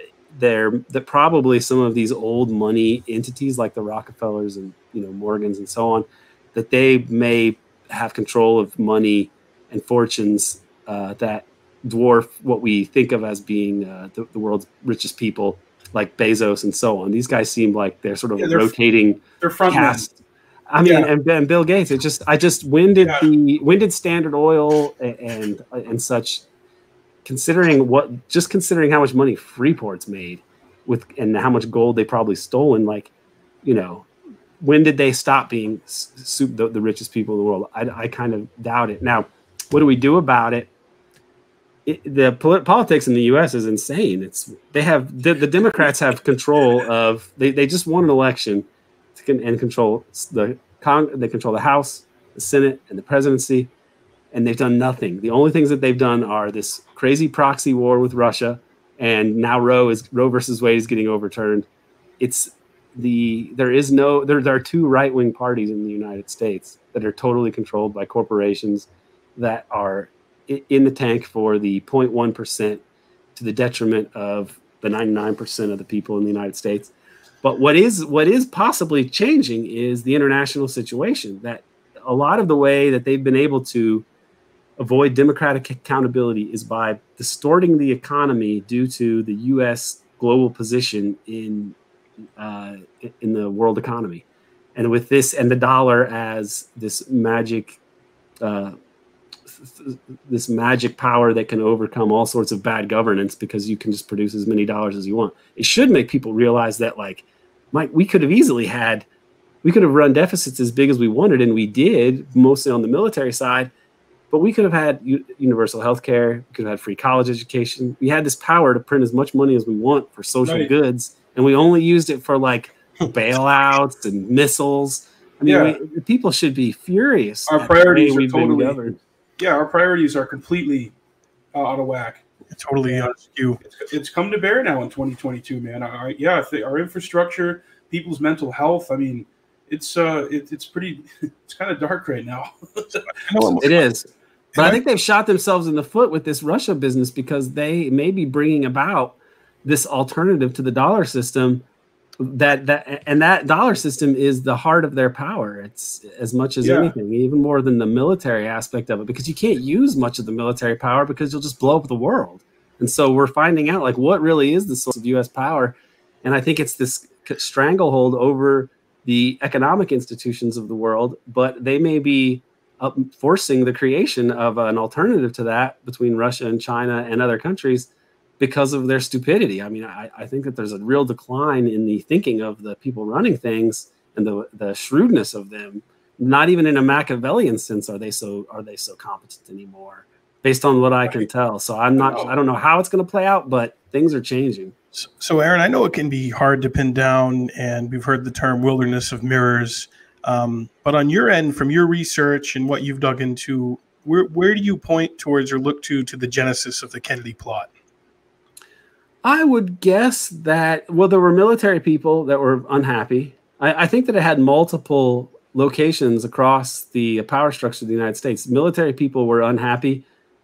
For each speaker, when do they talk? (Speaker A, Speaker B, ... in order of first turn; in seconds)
Speaker A: 0.3-20.2, 20.7-26.4, 27.2-33.1, 33.6-34.1, 34.6-40.7, 41.8-53.7, 54.3-61.7, 62.2-72.8, 73.3-76.9, 77.4-84.0, 84.8-91.8, 92.4-97.8, 98.4-98.7, 99.6-109.0, 109.6-113.7, 114.3-129.0, 143.6-151.6, 152.2-177.9, 178.4-194.7, 209.2-220.0
Speaker B: 18.4-18.7, 19.4-20.1, 20.8-21.1, 120.4-120.7, 125.5-125.8, 127.5-130.9, 131.5-132.2, 133.6-143.6, 156.6-156.9
Speaker C: 132.5-133.6, 143.2-143.7, 195.0-207.7